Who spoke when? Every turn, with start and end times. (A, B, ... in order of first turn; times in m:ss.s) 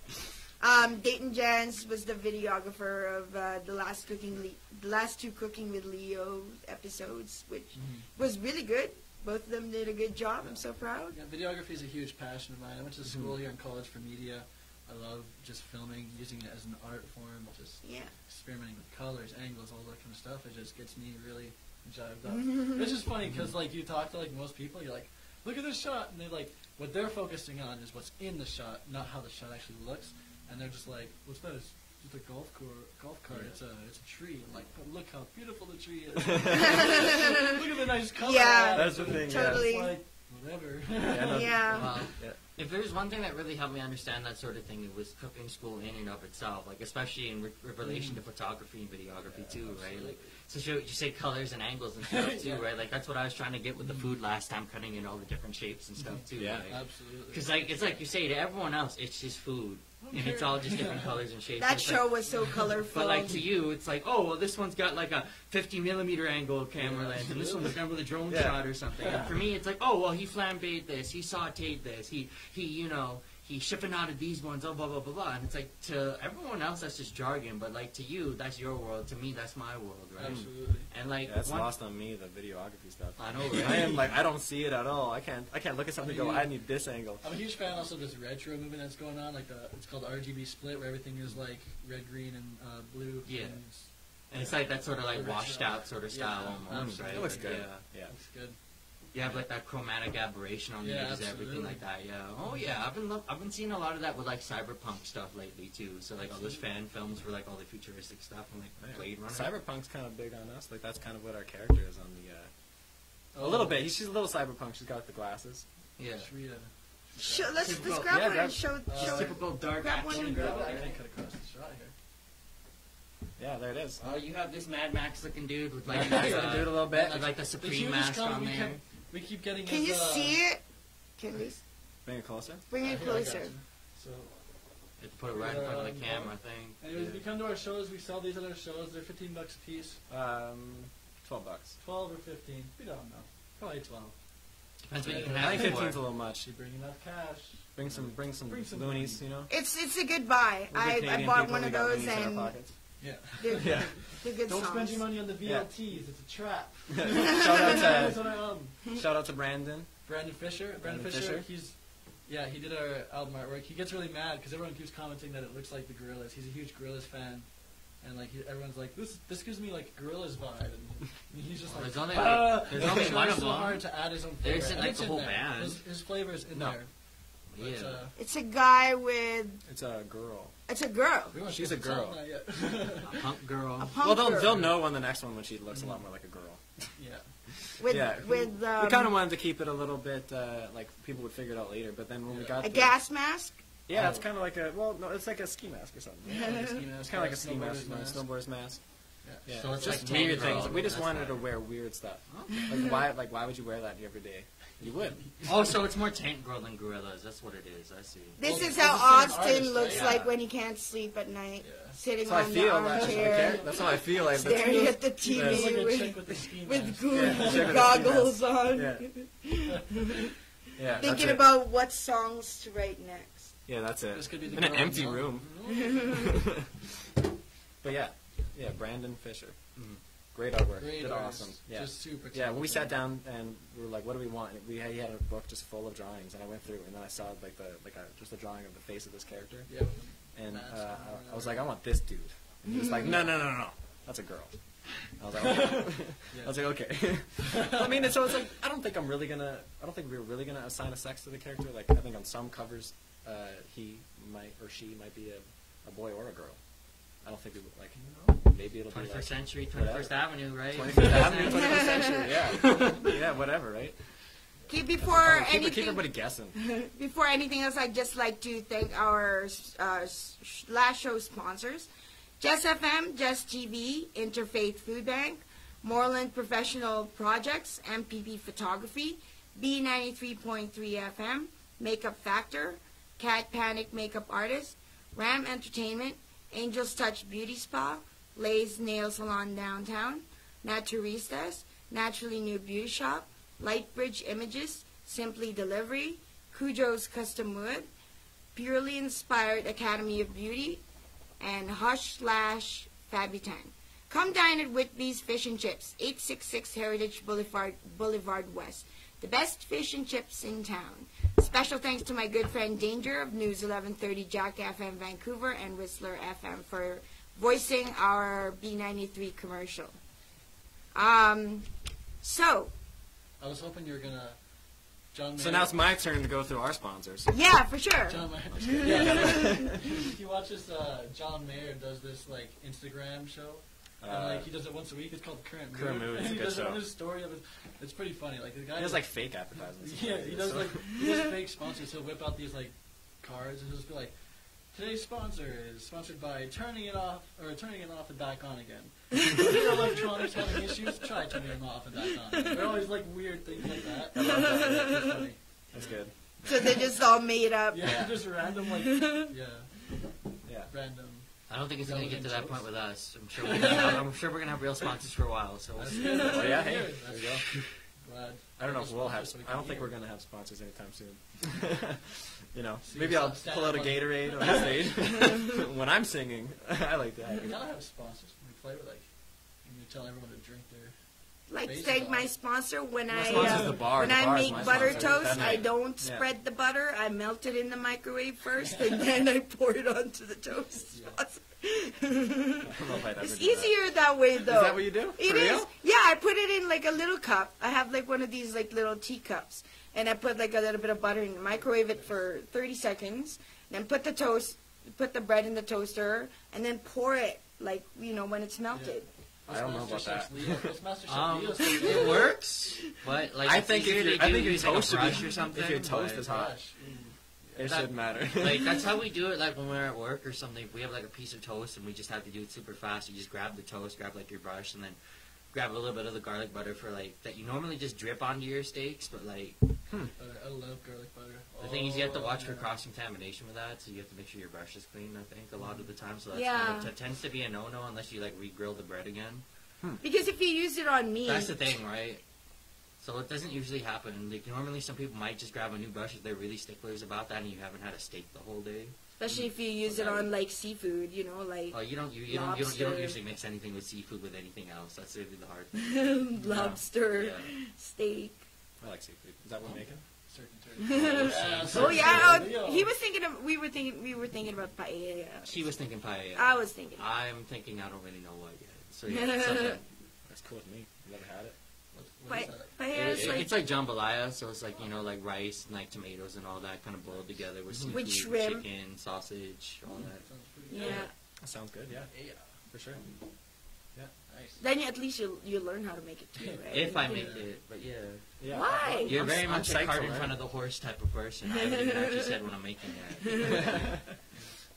0:00.6-0:11.2 A
0:07.7-0:08.1 B
0:10.4-0:42.1 B
0:13.0-0:13.4 C
0:17.8-0:18.1 A
0:22.3-0:22.9 A
0:33.3-0:33.6 D
0:36.4-0:36.8 C
0:37.2-0:37.5 A
0:38.2-0:40.0 A
0:38.7-0:39.7 C
0:41.0-0:42.4 C
0:41.2-0:42.1 A
0:41.7-1:21.7 D
0:47.8-0:48.2 B
0:49.3-0:50.3 B
0:52.1-0:52.7 B
0:53.8-0:54.1 B
0:56.0-0:58.0 B
0:56.4-0:56.7 C
1:00.0-1:01.2 B
1:01.6-1:03.4 A
1:06.8-1:07.8 B
1:08.3-1:08.7 C
1:09.0-1:09.3 B
1:20.2-1:20.9 B
1:20.2-1:20.5 C
1:21.2-1:27.2 C
1:23.2-1:24.0 D
1:26.0-1:38.6 B
1:33.2-1:37.7 D
1:36.7-1:38.1 C
1:39.1-1:49.5 D
1:40.8-1:41.8 B
1:46.2-1:46.6 B
1:48.8-1:52.5 C
1:53.2-1:55.6 C
1:53.3-1:53.9 B
1:56.0-1:56.3 D
1:56.2-1:57.5 B
1:57.2-2:00.9 A
1:57.6-2:00.9 D
1:58.1-1:58.6 C
1:58.9-1:59.4 B
2:00.1-2:01.9 B
2:03.4-2:04.0 C
2:04.0-2:08.8 D
2:05.9-2:07.2 C
2:05.9-2:10.4 B
2:09.6-2:10.6 A
2:11.2-2:11.6 A
2:12.0-2:12.6 C
2:12.7-2:13.5 A
2:12.8-2:14.7 B
2:15.0-2:16.8 D
2:15.3-2:20.0 B
2:16.9-2:17.2 C
2:20.1-2:21.8 C
2:21.8-2:29.2 B
2:24.8-2:26.0 D
2:25.0-2:26.5 C
2:27.7-2:29.5 C
2:29.5-2:35.0 A
2:30.7-2:34.1 C
2:33.0-2:38.8 B
2:35.4-2:35.7 C
2:37.3-2:40.0 C
2:40.0-2:58.1 B
2:40.8-2:41.5 C
2:51.7-2:55.8 D
2:52.8-2:53.1 C
2:56.5-2:56.8 C
2:57.5-2:58.0 D
2:58.2-2:59.6 A
2:59.6-3:00.5 C
3:00.7-3:01.4 A
3:01.3-3:03.2 B
3:01.4-3:02.2 C
3:03.0-3:04.0 D
3:03.8-3:04.6 A
3:04.0-3:06.9 C
3:05.7-3:06.0 B
3:06.9-3:07.4 B
3:07.8-3:09.1 A
3:07.8-3:13.0 C
3:12.3-3:12.6 B
3:12.6-3:13.6 A
3:13.9-3:25.4 C
3:13.9-3:14.2 B
3:16.3-3:18.3 B
3:19.2-3:21.0 B
3:19.5-3:21.4 D
3:22.3-3:22.8 D
3:25.4-3:28.8 D
3:28.4-3:39.9 A
3:28.4-3:30.2 B
3:29.7-3:30.3 D
3:31.6-3:32.0 B
3:32.2-3:35.8 C
3:32.9-3:34.0 B
3:35.2-3:38.2 B
3:37.1-3:39.1 C
3:40.8-3:41.5 C
3:40.8-3:41.3 B
3:41.0-3:43.6 A
3:43.7-3:46.5 C
3:44.1-3:46.1 B
3:45.8-3:46.3 A
3:47.8-4:26.6 C
3:49.8-3:50.0 D
3:50.8-3:52.9 B
3:59.7-4:01.7 B
4:02.6-4:03.3 A
4:05.4-4:06.8 B
4:17.9-4:18.4 B
4:18.9-4:22.1 D
4:20.9-4:21.5 B
4:21.5-4:22.2 A
4:24.7-4:31.9 A
4:32.4-4:57.9 A
4:58.5-5:00.8 A
5:01.4-5:20.0 A
5:20.9-5:21.7 A
5:22.2-5:22.7 A
5:23.4-5:25.8 B
5:25.4-5:27.3 C
5:27.3-5:29.7 A
5:28.1-5:56.0 B
5:28.5-5:29.8 C
5:34.0-5:34.5 C
5:35.7-5:36.8 C
5:38.8-5:41.0 C
5:54.1-5:55.0 A
5:54.1-5:55.1 C
5:55.7-5:56.9 C
5:56.4-5:58.2 A
5:57.7-6:00.0 B
5:57.8-5:58.1 C
5:59.0-5:59.3 A
6:00.4-6:00.7 C
6:00.7-6:02.7 B
6:01.5-6:06.6 D
6:03.4-6:04.1 B
6:05.8-6:09.9 B
6:06.2-6:07.5 C
6:07.1-6:07.6 D
6:08.6-6:17.6 C
6:12.8-6:15.0 B
6:17.4-6:22.3 B
6:21.5-6:49.1 A
6:23.1-6:26.3 C
6:23.2-6:25.7 B
6:28.6-6:28.9 B
6:30.9-6:31.2 B
6:32.6-6:35.7 C
6:48.7-6:52.2 B
6:49.5-6:50.7 C
6:51.1-6:56.3 D
6:53.4-6:56.6 C
6:56.3-6:57.8 B
6:57.6-6:58.9 C
6:57.6-7:05.0 D
7:05.5-7:09.6 D
7:10.2-7:12.7 B
7:11.6-7:19.4 D
7:15.6-7:15.9 B
7:16.3-7:16.9 A
7:20.0-7:21.8 A
7:21.2-7:22.2 D
7:23.0-7:29.0 D
7:29.2-7:33.2 A
7:29.8-7:30.3 D
7:31.7-7:37.5 D
7:35.8-7:38.4 A
7:36.5-7:36.8 C
7:38.8-7:40.3 C
7:39.7-7:42.9 B
7:40.8-7:47.0 A
7:40.9-7:42.3 C
7:41.2-7:42.4 D
7:45.4-7:49.8 D
7:49.1-7:49.8 A
7:50.2-7:51.6 C
7:51.9-7:52.8 B
7:52.3-7:53.5 A
7:52.9-8:01.0 D
7:53.1-7:53.4 C
7:57.1-7:57.4 B
7:57.9-7:58.6 A
8:00.0-8:01.1 B
8:00.7-8:01.1 A
8:01.4-8:03.1 C
8:02.1-8:02.6 B
8:04.3-8:04.6 B
8:04.6-8:07.4 A
8:06.4-8:07.5 B
8:06.7-8:14.4 D
8:08.4-8:10.4 C
8:08.5-8:09.2 A
8:13.3-8:13.6 A
8:13.4-8:14.0 C